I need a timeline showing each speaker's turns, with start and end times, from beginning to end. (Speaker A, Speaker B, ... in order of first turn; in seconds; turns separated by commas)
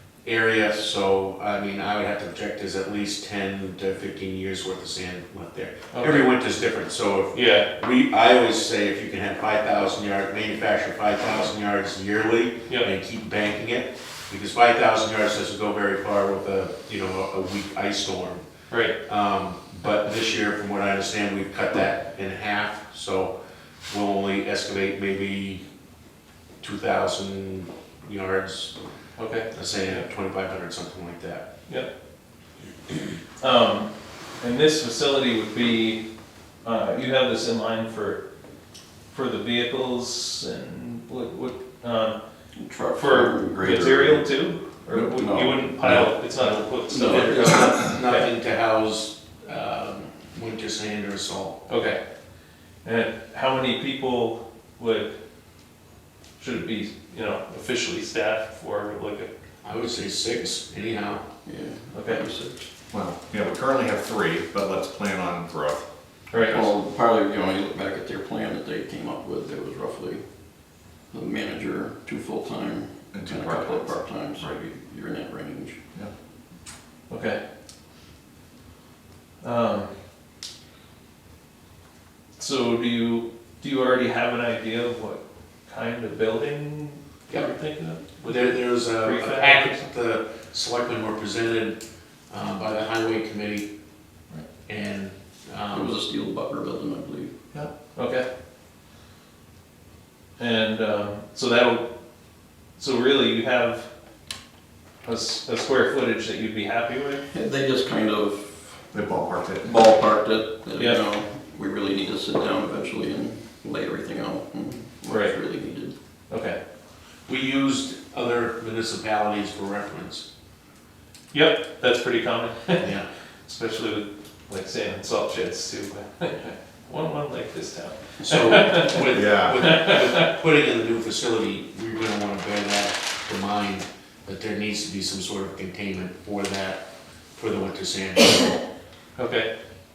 Speaker A: 0.2-18.4, Speaker B: 5.9-6.3, Speaker B: 7.3-7.7, Speaker B: 18.7-18.9, Speaker A: 19.0-23.3, Speaker A: 23.9-25.6, Speaker A: 26.6-28.7, Speaker B: 29.1-30.1, Speaker A: 29.5-31.4, Speaker B: 33.4-36.0, Speaker B: 36.6-38.2, Speaker B: 39.1-42.2, Speaker C: 42.5-44.3, Speaker B: 42.9-48.3, Speaker C: 45.0-46.0, Speaker C: 46.9-47.9, Speaker A: 46.9-51.6, Speaker B: 51.7-52.0, Speaker B: 52.8-55.1, Speaker B: 56.4-59.3, Speaker A: 59.6-61.2, Speaker C: 61.4-62.7, Speaker B: 61.9-62.2, Speaker D: 62.9-65.8, Speaker B: 66.3-66.7, Speaker C: 66.5-70.2, Speaker C: 71.1-75.8, Speaker D: 73.1-74.6, Speaker B: 77.1-77.4, Speaker B: 79.4-79.9, Speaker B: 82.4-89.8, Speaker A: 87.3-87.5, Speaker A: 88.2-91.8, Speaker A: 92.3-93.7, Speaker A: 94.7-96.0, Speaker C: 95.7-97.3, Speaker B: 97.9-98.2, Speaker B: 100.4-101.8, Speaker B: 102.8-103.9, Speaker B: 105.0-107.2, Speaker C: 107.2-108.7, Speaker D: 108.9-109.8, Speaker C: 109.6-115.9, Speaker B: 110.7-111.0, Speaker B: 115.0-115.4, Speaker B: 116.3-116.6, Speaker A: 117.3-120.2, Speaker B: 121.3-122.9, Speaker A: 122.8-123.1, Speaker B: 123.5-130.2, Speaker A: 128.2-136.8, Speaker D: 129.1-129.6, Speaker A: 137.3-138.6, Speaker B: 139.2-139.5